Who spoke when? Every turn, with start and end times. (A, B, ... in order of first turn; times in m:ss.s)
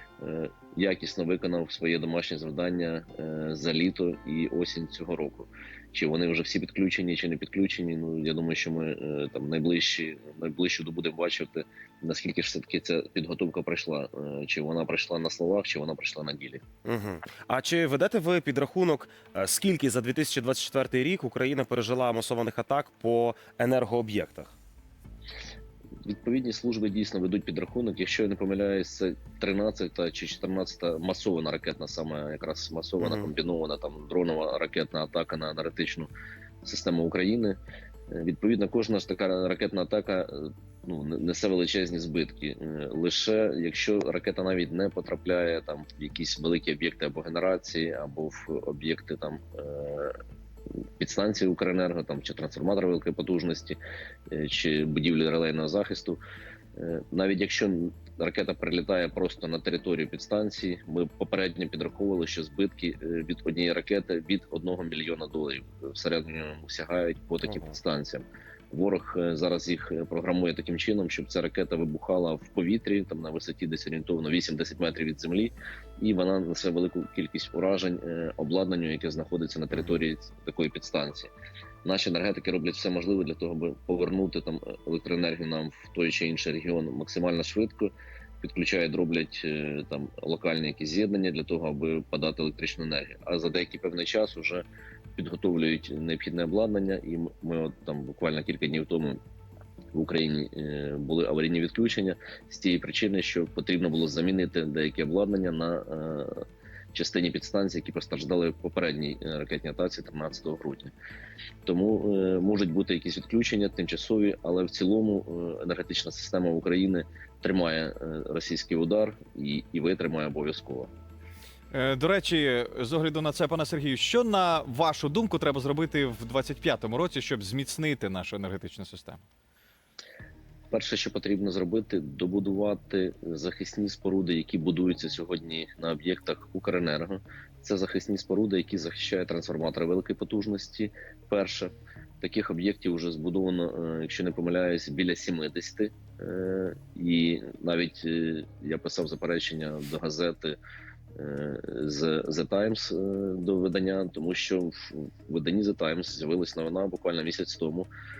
0:00.2-0:16.6 A
0:16.8-0:24.5 B
0:26.0-0:36.1 A
0:33.0-0:33.3 B
0:36.6-0:37.6 A
0:38.1-0:50.2 A
0:51.0-0:53.8 A
0:54.3-0:56.2 A
0:56.8-1:21.3 A
1:21.8-1:34.6 A
1:35.2-1:39.2 A
1:39.9-1:50.9 A
1:51.6-2:00.9 A
2:01.7-2:09.2 C
2:10.7-2:30.6 A
2:31.2-2:37.9 A